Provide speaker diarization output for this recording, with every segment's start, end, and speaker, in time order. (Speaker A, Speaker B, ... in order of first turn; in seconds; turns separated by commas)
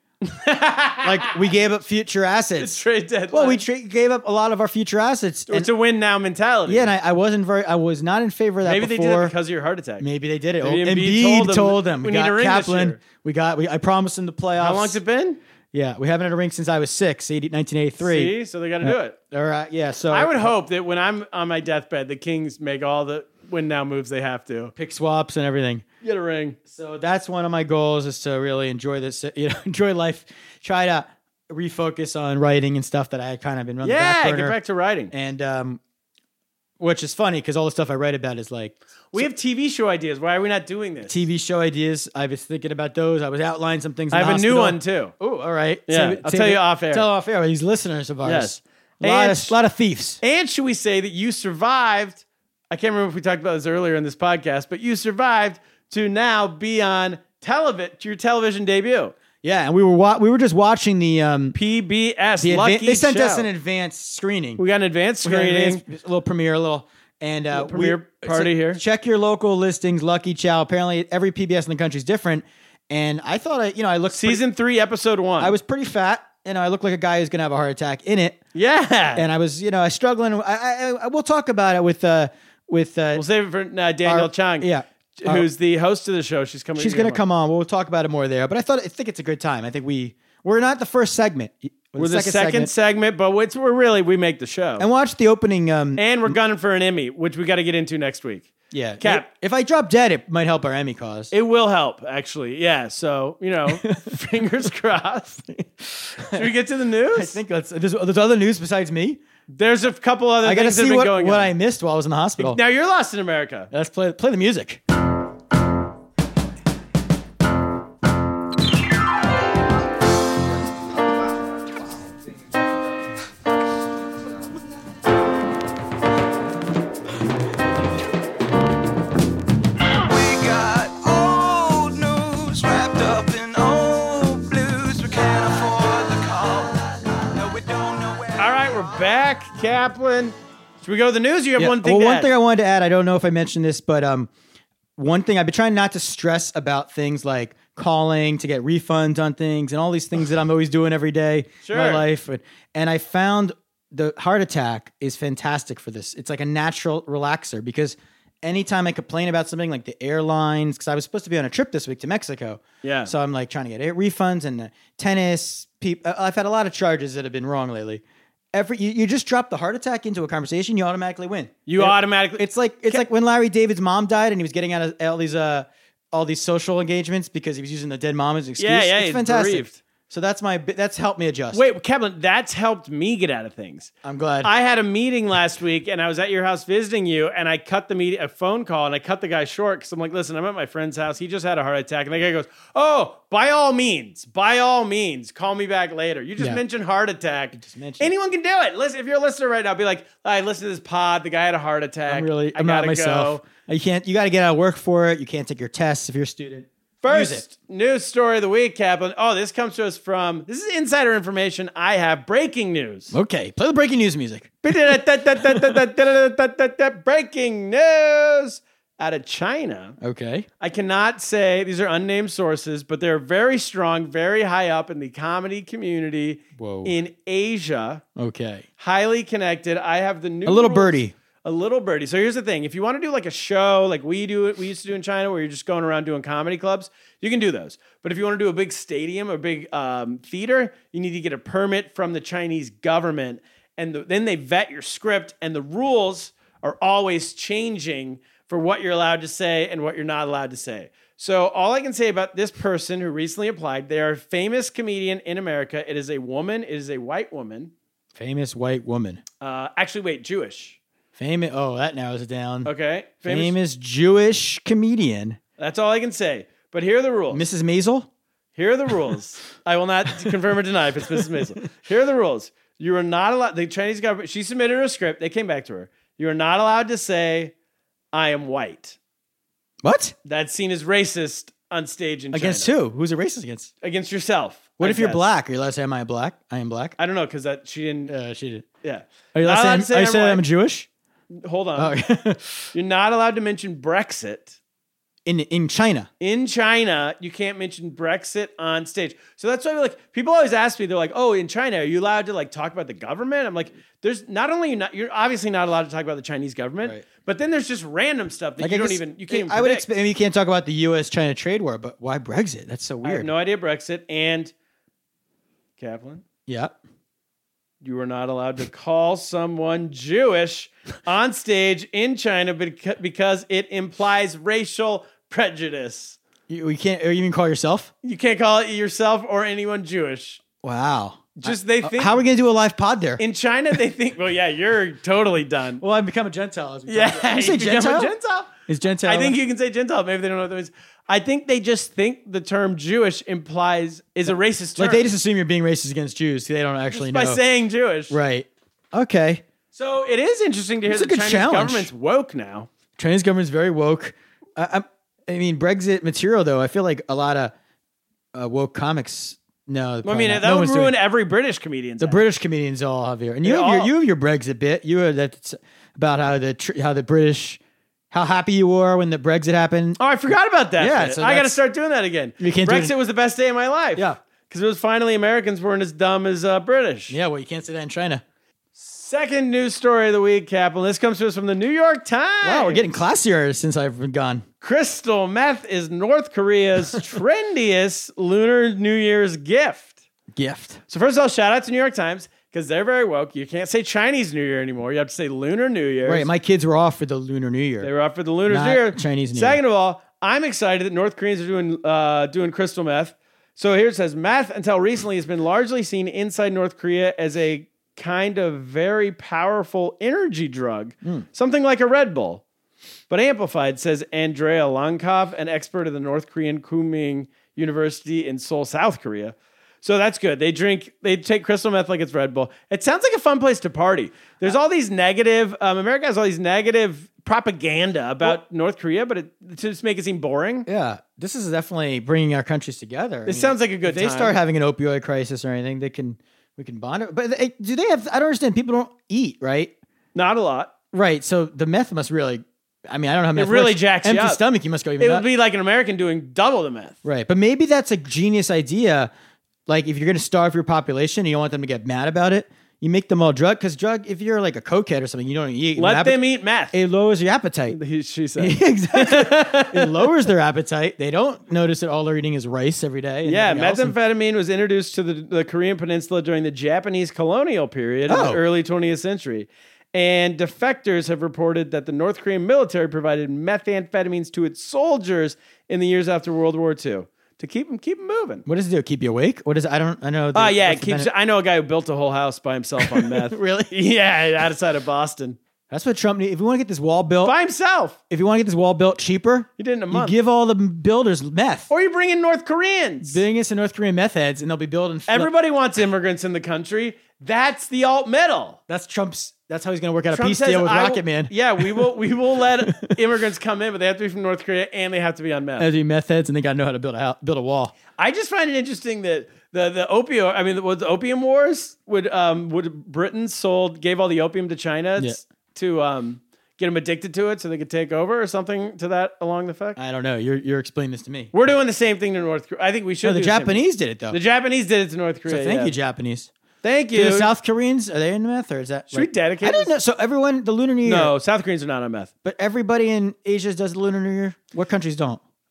Speaker A: 0.2-1.4, Speaker B: 1.0-2.8, Speaker A: 2.6-3.6, Speaker B: 3.3-5.7, Speaker A: 5.5-6.9, Speaker B: 6.7-9.3, Speaker A: 8.6-10.1, Speaker B: 10.0-15.0, Speaker A: 10.6-13.0, Speaker A: 14.6-15.4, Speaker B: 15.7-20.5, Speaker A: 18.0-19.2, Speaker A: 20.1-24.7, Speaker B: 24.8-25.8, Speaker A: 26.0-26.6, Speaker B: 26.7-34.6, Speaker A: 33.8-35.1, Speaker B: 35.1-35.8, Speaker B: 36.8-39.3, Speaker A: 39.1-41.2, Speaker B: 41.0-50.2, Speaker A: 44.1-45.1, Speaker A: 45.9-47.0, Speaker A: 48.2-49.6, Speaker A: 50.2-59.1, Speaker B: 59.4-61.6, Speaker A: 61.5-63.5, Speaker B: 62.4-64.6, Speaker A: 64.6-65.8, Speaker B: 65.2-74.4, Speaker A: 67.5-68.8, Speaker A: 74.1-75.6, Speaker B: 75.4-78.4, Speaker A: 78.5-79.2, Speaker B: 79.1-83.2, Speaker A: 83.1-87.2, Speaker B: 84.0-85.5, Speaker B: 86.8-92.7, Speaker A: 92.0-94.8, Speaker B: 94.8-96.3, Speaker A: 96.0-99.3, Speaker B: 98.7-101.3, Speaker A: 101.3-105.4, Speaker B: 103.7-104.2, Speaker B: 105.5-106.5, Speaker A: 106.3-107.4, Speaker B: 107.1-109.2, Speaker A: 109.5-111.5, Speaker B: 110.4-112.6, Speaker A: 112.4-113.7, Speaker B: 113.7-114.8, Speaker C: 130.0-139.1, Speaker A: 138.4-142.3, Speaker B: 141.6-144.3, Speaker B: 145.0-181.6, Speaker A: 151.6-152.0, Speaker A: 162.8-163.1, Speaker A: 171.7-173.1, Speaker A: 178.6-179.8, Speaker A: 181.5-183.9, Speaker B: 184.0-184.5, Speaker A: 184.4-203.4, Speaker B: 197.5-198.1, Speaker B: 202.1-207.4, Speaker A: 207.0-213.1, Speaker B: 213.1-214.7, Speaker A: 214.6-220.0, Speaker B: 220.0-220.5, Speaker A: 220.6-228.0, Speaker B: 226.6-226.9, Speaker B: 228.2-228.7, Speaker A: 228.8-257.7, Speaker B: 230.4-231.1, Speaker B: 258.1-259.2, Speaker A: 259.4-260.8, Speaker B: 261.1-262.7, Speaker A: 262.6-263.5, Speaker B: 263.2-265.4, Speaker A: 265.6-267.4, Speaker B: 267.3-268.1, Speaker A: 268.5-277.5, Speaker B: 271.1-271.4, Speaker A: 278.1-279.0, Speaker B: 279.8-280.1, Speaker A: 280.2-282.7, Speaker B: 282.3-283.7, Speaker A: 283.8-285.3, Speaker B: 284.8-286.9, Speaker A: 287.0-288.1, Speaker B: 288.1-288.6, Speaker A: 288.8-290.4, Speaker B: 289.3-290.9, Speaker A: 291.3-291.9, Speaker B: 291.8-292.7, Speaker A: 292.7-294.6, Speaker B: 295.2-296.1, Speaker A: 296.2-309.9, Speaker B: 308.6-313.3, Speaker A: 313.0-314.5, Speaker A: 315.8-316.2, Speaker B: 316.5-316.8, Speaker A: 317.8-326.2, Speaker B: 326.5-327.9, Speaker A: 328.0-330.4, Speaker B: 330.6-333.2, Speaker A: 331.4-332.2, Speaker A: 333.2-335.8, Speaker B: 335.8-338.1, Speaker A: 336.9-338.5, Speaker B: 338.6-339.4, Speaker A: 339.0-345.1, Speaker B: 344.3-347.4, Speaker A: 346.9-348.2, Speaker B: 348.1-349.4, Speaker A: 349.7-352.7, Speaker B: 350.9-351.9, Speaker B: 353.0-357.5, Speaker B: 358.3-361.0, Speaker A: 360.0-362.2, Speaker B: 362.0-367.6, Speaker A: 363.4-363.9, Speaker B: 368.1-370.0, Speaker A: 370.0-377.2, Speaker B: 370.8-371.6, Speaker B: 372.4-372.9, Speaker B: 377.1-378.2, Speaker A: 378.8-382.9, Speaker B: 382.4-384.4, Speaker A: 384.6-389.9, Speaker B: 390.3-390.8, Speaker A: 390.9-396.3, Speaker B: 396.0-397.9, Speaker A: 397.8-412.4, Speaker B: 398.4-399.6, Speaker A: 413.1-430.7, Speaker B: 430.7-439.7, Speaker A: 433.3-434.4, Speaker A: 440.1-440.7, Speaker B: 440.9-445.2, Speaker A: 443.3-444.4, Speaker A: 445.0-447.0, Speaker B: 447.0-449.1, Speaker B: 449.7-457.8, Speaker A: 455.8-456.8, Speaker A: 457.7-460.1, Speaker B: 458.4-463.9, Speaker A: 463.2-478.4, Speaker B: 468.1-468.4, Speaker B: 478.4-481.1, Speaker A: 480.3-485.4, Speaker B: 482.8-483.7, Speaker B: 485.7-487.4, Speaker A: 487.2-488.0, Speaker B: 488.1-491.7, Speaker A: 489.6-490.1, Speaker A: 491.7-493.2, Speaker B: 493.0-495.3, Speaker A: 495.1-498.6, Speaker B: 498.7-503.0, Speaker A: 500.1-505.7, Speaker B: 505.6-507.7, Speaker A: 508.0-519.8, Speaker B: 519.8-521.3, Speaker A: 521.3-525.7, Speaker B: 523.0-524.2, Speaker B: 525.2-526.3, Speaker A: 526.6-527.3, Speaker B: 526.9-531.1, Speaker A: 528.9-529.7, Speaker A: 530.8-532.1, Speaker B: 532.2-535.2